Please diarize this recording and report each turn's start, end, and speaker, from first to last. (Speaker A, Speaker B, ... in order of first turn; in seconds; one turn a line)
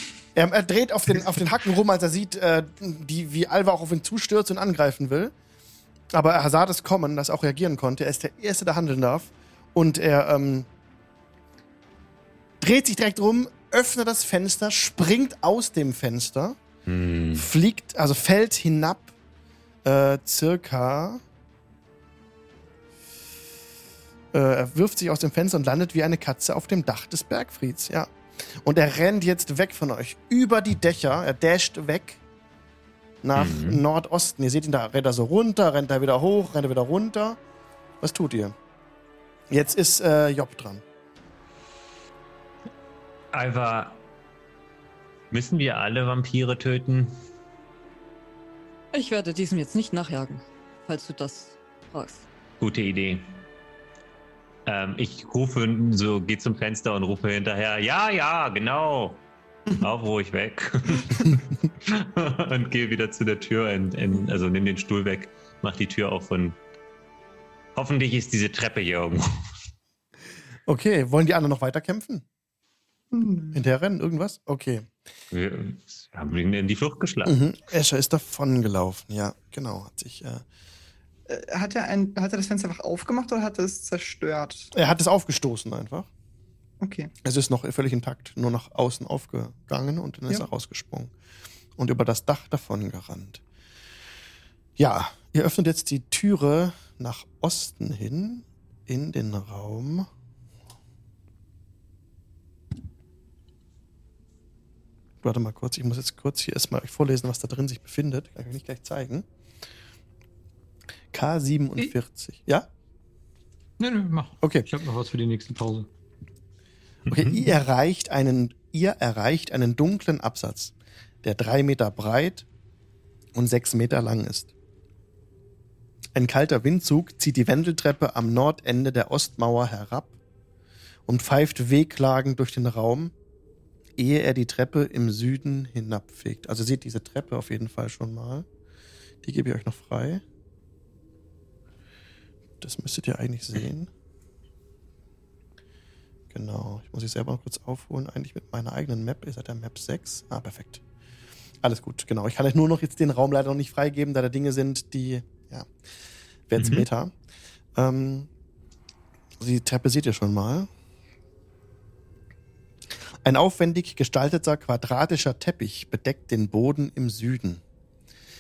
Speaker A: 0.3-5.3
Speaker A: 6.1-10.7
Speaker A: 12.6-16.6
Speaker B: 16.9-17.5
Speaker A: 17.4-19.1
Speaker A: 19.8-21.2
Speaker A: 24.3-32.2
Speaker A: 33.2-37.4
Speaker B: 33.4-33.8
Speaker A: 38.0-38.5
Speaker A: 39.5-40.8
Speaker B: 43.3-44.0
Speaker B: 45.3-47.2
Speaker C: 48.9-52.2
Speaker B: 52.6-53.4
Speaker B: 54.6-66.6
Speaker B: 67.7-69.5
Speaker A: 70.7-72.2
Speaker D: 73.1-73.6
Speaker A: 73.5-74.9
Speaker B: 75.3-77.4
Speaker A: 77.2-80.4
Speaker D: 81.3-84.7
Speaker A: 84.7-86.1
Speaker D: 86.8-87.1
Speaker A: 87.2-91.1
Speaker A: 91.8-93.4
Speaker A: 94.8-100.1
Speaker A: 105.2-109.2
Speaker A: 111.1-112.7
Speaker E: 113.8-115.9
Speaker B: 117.1-117.4
Speaker A: 117.1-122.5
Speaker A: 123.3-124.5
Speaker A: 126.1-130.1
Speaker A: 131.1-133.1
Speaker A: 134.0-138.4
Speaker A: 139.2-140.2
Speaker A: 142.6-143.9
Speaker A: 146.3-150.8
Speaker A: 151.6-155.7
Speaker A: 156.5-157.1
Speaker B: 156.6-156.8
Speaker A: 157.8-158.3
Speaker A: 159.4-160.7
Speaker A: 163.2-167.6